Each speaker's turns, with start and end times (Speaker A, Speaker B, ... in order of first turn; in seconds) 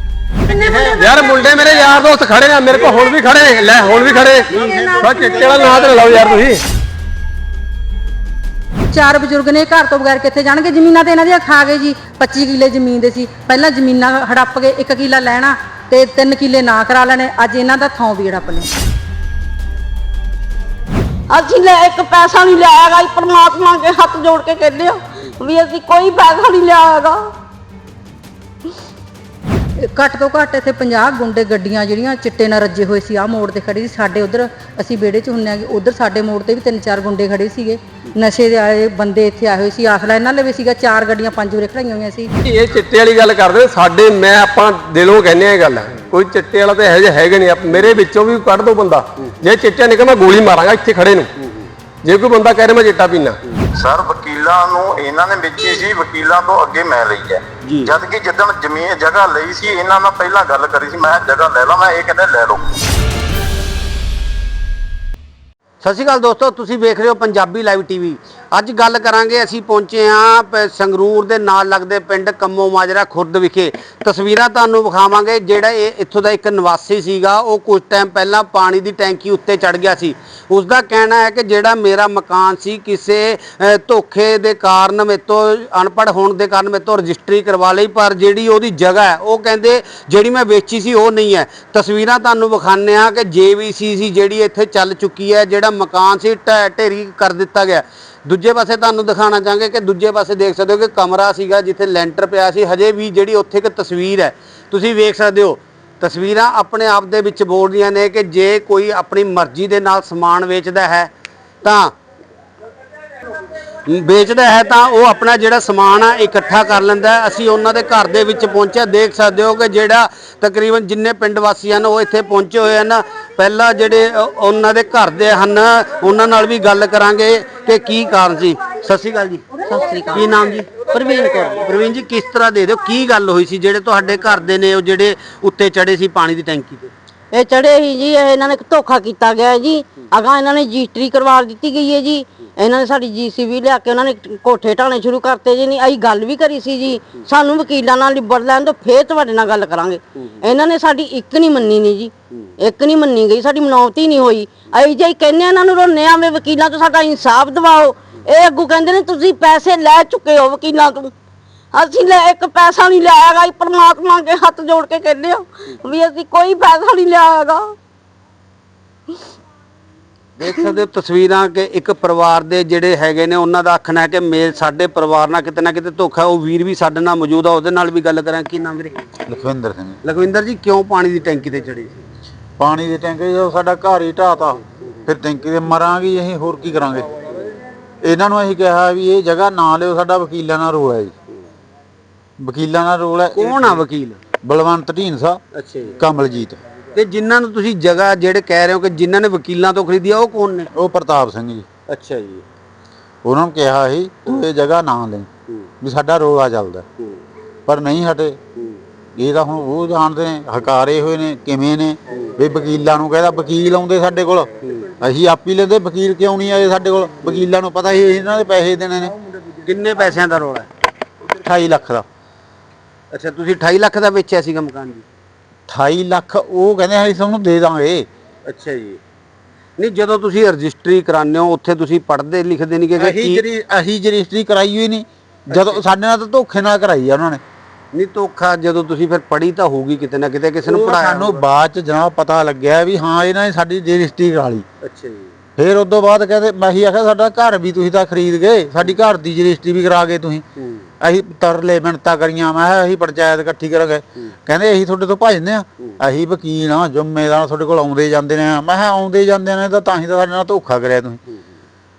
Speaker A: 0.5-1.8, 3.8-6.4, 8.9-18.7, 29.8-42.3
Speaker B: 0.5-1.1, 4.5-6.0, 179.3-180.0, 182.6-187.1, 188.0-191.1, 192.4-193.8, 194.4-195.4, 196.0-196.6, 200.8-201.7, 203.2-205.3, 205.8-206.8, 207.7-208.4, 209.2-219.1, 221.3-222.1, 225.7-228.1, 233.0-237.4, 240.7-244.7, 245.6-250.4, 251.0-261.2
Speaker C: 1.0-6.6, 42.4-51.3, 52.0-53.4
Speaker D: 21.3-27.3, 129.7-131.7, 137.3-161.1, 161.7-167.8
Speaker E: 47.7-48.0, 51.4-51.7, 57.6-57.9, 65.8-111.1, 111.6-111.9, 113.9-130.8, 131.5-136.9, 150.2-150.5, 170.4-179.0, 180.0-182.0, 193.3-194.2, 195.5-196.0, 196.9-200.7, 201.9-202.4, 208.6-208.8, 212.1-212.4, 214.6-214.9, 219.6-220.7, 223.1-225.1, 228.5-229.0, 229.8-233.4, 235.5-235.8, 237.9-241.4, 244.8-245.3, 250.6-250.9
Speaker F: 53.8-62.6